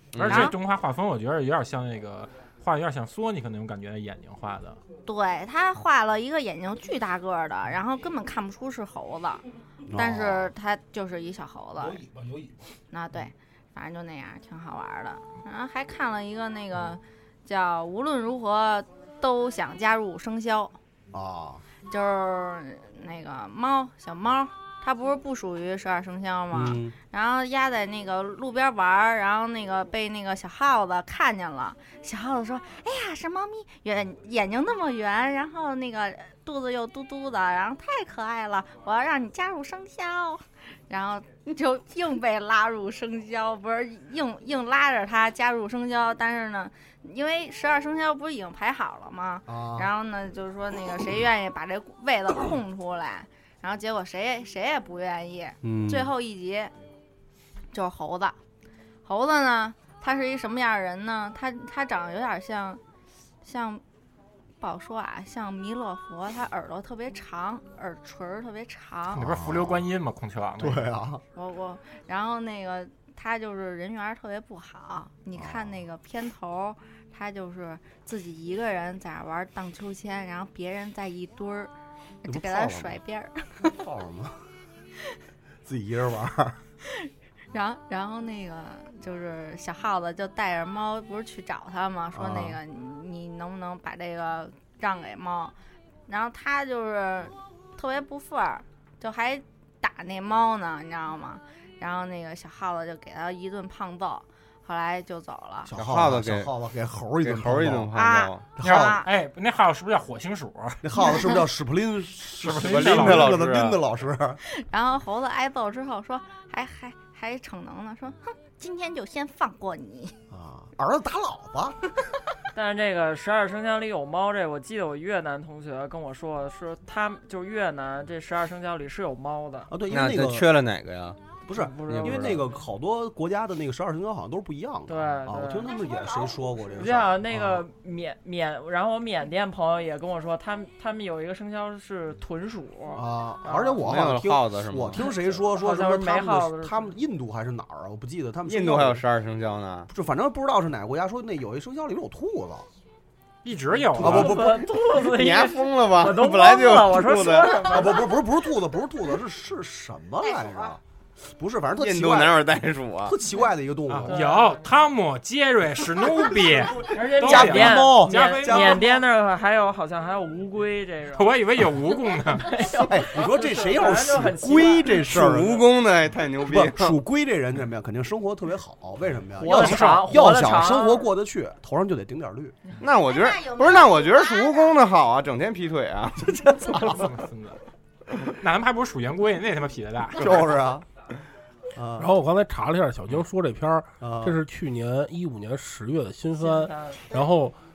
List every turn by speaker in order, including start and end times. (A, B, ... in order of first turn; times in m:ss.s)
0:00.1-0:00.5 A
0:00.2-0:04.8 B
0:00.3-0:00.5 C
0:05.0-0:09.4 C
0:09.9-0:10.5 D
0:09.9-0:12.0 C
0:11.8-0:12.6 E
0:12.9-0:20.7 C
0:21.1-0:21.6 D
0:21.9-0:56.7 C
0:26.5-0:26.9 D
0:49.5-0:49.9 D
0:55.6-0:56.1 D
0:57.7-0:58.4 C
0:59.0-1:02.8 C
1:03.4-1:03.8 C
1:04.6-1:09.3 C
1:09.1-1:10.9 B
1:09.2-1:09.8 D
1:10.6-1:11.2 D
1:11.3-1:21.7 C
1:15.3-1:15.8 D
1:22.2-1:23.7 C
1:22.2-1:23.0 D
1:23.6-1:24.4 D
1:25.6-1:26.6 D
1:26.8-1:35.5 C
1:32.1-1:32.6 D
1:36.1-1:45.7 C
1:45.6-1:47.9 D
1:45.7-1:46.5 A
1:47.2-1:48.4 A
1:47.9-1:49.1 C
1:48.6-1:49.0 D
1:48.6-1:50.8 B
1:50.8-1:54.4 D
1:51.0-1:51.4 C
1:52.4-1:53.4 B
1:52.5-1:53.8 A
1:54.4-2:00.1 C
2:00.3-2:01.8 D
2:02.5-2:09.7 F
2:09.7-2:10.5 D
2:09.9-2:11.2 A
2:11.5-2:17.6 D
2:11.5-2:12.6 F
2:11.8-2:12.4 A
2:14.9-2:15.9 F
2:16.7-2:23.8 F
2:22.9-2:29.0 D
2:23.8-2:25.1 A
2:25.0-2:26.9 F
2:28.4-2:29.9 A
2:29.9-2:32.6 D
2:33.4-2:34.4 B
2:34.0-2:34.7 D
2:34.0-2:38.2 F
2:34.8-2:37.7 A
2:37.7-2:40.8 D
2:41.4-2:42.4 D
2:41.8-2:43.2 A
2:43.0-2:44.2 D
2:43.9-2:48.8 B
2:44.0-2:44.8 F
2:46.8-2:51.3 F
2:47.2-2:49.0 D
2:51.1-2:52.6 B
2:52.3-2:55.4 F
2:52.8-2:55.6 D
2:55.1-2:57.0 A
2:56.5-3:02.5 D
2:59.4-3:01.1 F
2:59.4-3:00.4 B
3:02.8-3:06.8 A
3:03.1-3:04.6 C
3:06.7-3:07.6 B
3:08.4-3:10.5 B
3:10.2-3:10.8 D
3:11.7-3:12.1 D
3:12.0-3:17.6 E
3:14.0-3:14.4 D
3:16.4-3:17.1 F